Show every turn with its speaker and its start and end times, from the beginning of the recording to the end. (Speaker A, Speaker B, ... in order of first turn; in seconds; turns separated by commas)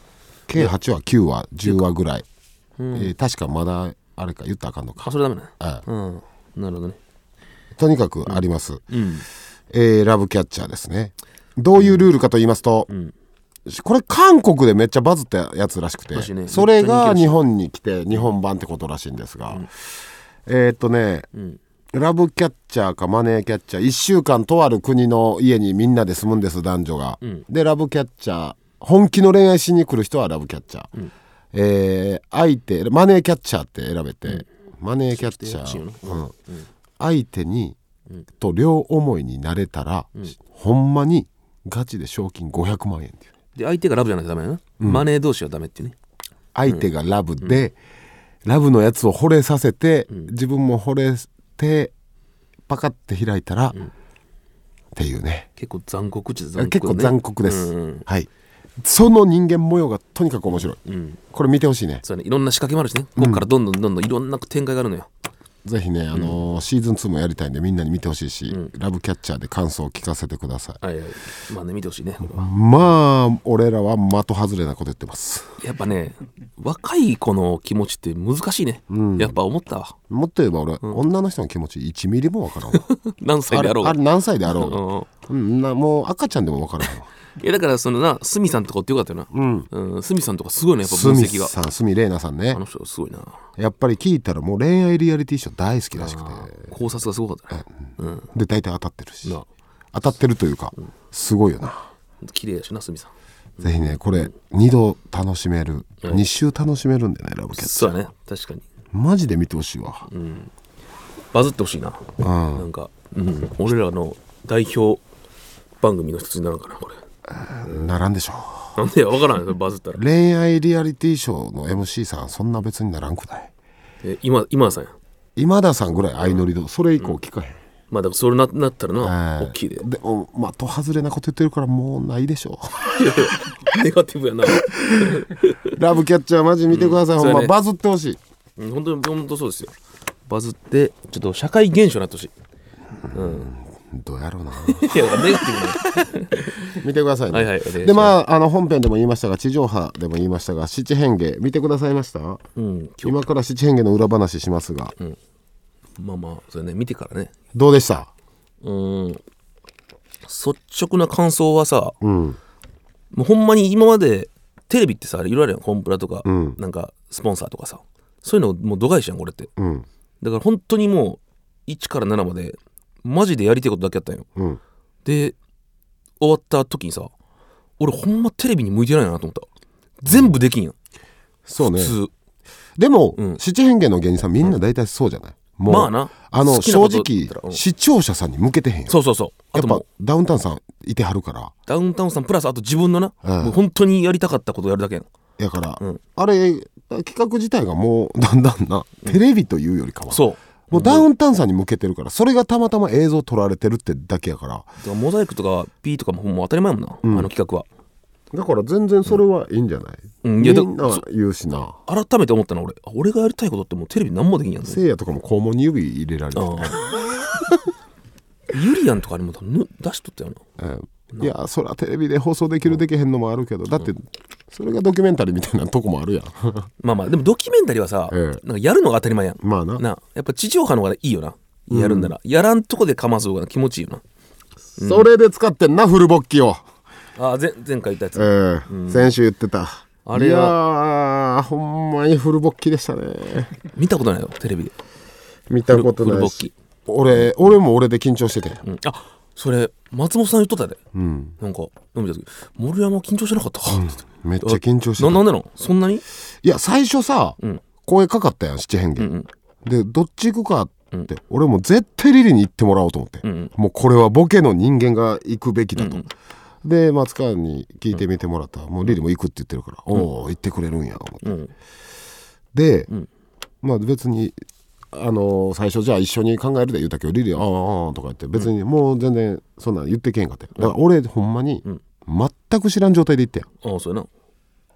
Speaker A: 0.5-2.2, Speaker B: 2.8-3.1, Speaker A: 2.9-5.8, Speaker B: 5.0-7.0, Speaker A: 7.8-8.8, Speaker B: 8.3-9.3, Speaker A: 9.7-12.9, Speaker B: 11.8-12.1, Speaker B: 12.9-13.1, Speaker A: 13.7-19.7, Speaker B: 16.1-17.4, Speaker A: 20.5-21.3, Speaker B: 21.3-21.6, Speaker A: 21.9-30.9, Speaker A: 31.5-36.3, Speaker B: 35.1-36.7, Speaker A: 37.0-37.8, Speaker A: 38.4-43.3, Speaker B: 43.6-46.0, Speaker A: 44.8-45.1, Speaker A: 46.5-47.8, Speaker A: 48.5-51.9, Speaker A: 52.7-53.8, Speaker A: 55.0-55.5, Speaker B: 55.6-58.1, Speaker A: 56.6-58.3, Speaker A: 58.8-60.8, Speaker B: 60.8-61.2, Speaker A: 61.3-62.0, Speaker B: 62.0-65.1, Speaker A: 63.2-63.5, Speaker A: 65.7-70.8, Speaker B: 66.1-66.4, Speaker B: 70.8-72.8, Speaker A: 72.2-75.5, Speaker B: 75.6-80.0, Speaker A: 78.9-79.4, Speaker A: 80.1-82.9, Speaker B: 82.8-85.1, Speaker A: 83.5-87.1, Speaker B: 87.3-91.5, Speaker A: 89.3-89.7, Speaker A: 90.8-92.6, Speaker B: 92.5-93.4, Speaker A: 93.6-96.8, Speaker B: 96.0-98.3, Speaker A: 98.3-99.4, Speaker A: 99.9-101.9, Speaker B: 102.2-104.3, Speaker A: 103.6-108.0, Speaker B: 107.5-108.7, Speaker A: 108.9-110.1, Speaker B: 110.1-110.5, Speaker B: 111.3-115.0, Speaker A: 112.2-112.7, Speaker B: 115.8-117.0, Speaker A: 117.3-118.8, Speaker B: 118.8-120.0, Speaker A: 120.0-123.5, Speaker B: 124.0-124.9, Speaker A: 125.4-127.6, Speaker B: 126.0-126.4, Speaker B: 127.9-129.9, Speaker A: 129.0-133.2, Speaker B: 132.9-135.7, Speaker A: 134.7-138.2, Speaker B: 136.7-137.5, Speaker B: 138.6-139.7, Speaker B: 140.3-142.3, Speaker A: 143.1-145.7, Speaker B: 143.1-143.5, Speaker B: 144.7-148.2, Speaker A: 146.8-152.4, Speaker B: 152.6-153.2, Speaker A: 153.0-154.9, Speaker B: 156.0-157.3, Speaker A: 157.5-158.1, Speaker B: 158.6-159.2, Speaker B: 160.2-161.9, Speaker A: 162.0-162.4, Speaker B: 163.1-169.5, Speaker A: 166.2-166.6, Speaker A: 169.6-169.9, Speaker B: 170.2-174.3, Speaker A: 174.4-174.6, Speaker B: 175.1-175.4, Speaker B: 176.2-177.1, Speaker B: 177.8-179.5, Speaker B: 180.0-180.8, Speaker A: 180.1-180.4, Speaker A: 181.5-182.0, Speaker B: 181.6-182.1, Speaker A: 182.8-189.0, Speaker B: 185.7-187.6, Speaker B: 188.9-189.8, Speaker A: 189.5-191.5, Speaker B: 191.7-195.1, Speaker A: 193.2-193.6, Speaker A: 195.4-204.7, Speaker B: 200.1-201.1, Speaker B: 204.8-207.7, Speaker A: 207.0-207.3, Speaker A: 208.3-211.8, Speaker B: 210.2-211.0, Speaker B: 211.9-214.8, Speaker A: 214.6-217.6, Speaker B: 216.4-216.8, Speaker B: 218.5-220.4, Speaker A: 220.6-226.7, Speaker B: 226.8-234.0, Speaker A: 228.1-228.4, Speaker A: 229.4-229.8, Speaker A: 231.7-232.1, Speaker A: 234.8-236.6, Speaker B: 234.8-235.1, Speaker B: 237.2-239.1, Speaker A: 238.2-243.5, Speaker B: 240.1-240.6, Speaker B: 243.7-244.7, Speaker A: 245.5-248.6, Speaker B: 245.7-246.5, Speaker B: 247.1-247.4, Speaker B: 248.6-250.8, Speaker A: 250.9-251.4, Speaker B: 251.4-256.0, Speaker A: 253.7-255.2, Speaker A: 256.4-259.1, Speaker B: 259.0-259.3, Speaker A: 259.6-266.1, Speaker B: 263.2-263.5, Speaker B: 265.8-266.1, Speaker A: 266.6-271.3, Speaker B: 271.2-271.5, Speaker A: 272.5-272.9, Speaker A: 273.6-274.4, Speaker A: 274.9-283.5, Speaker B: 283.6-284.1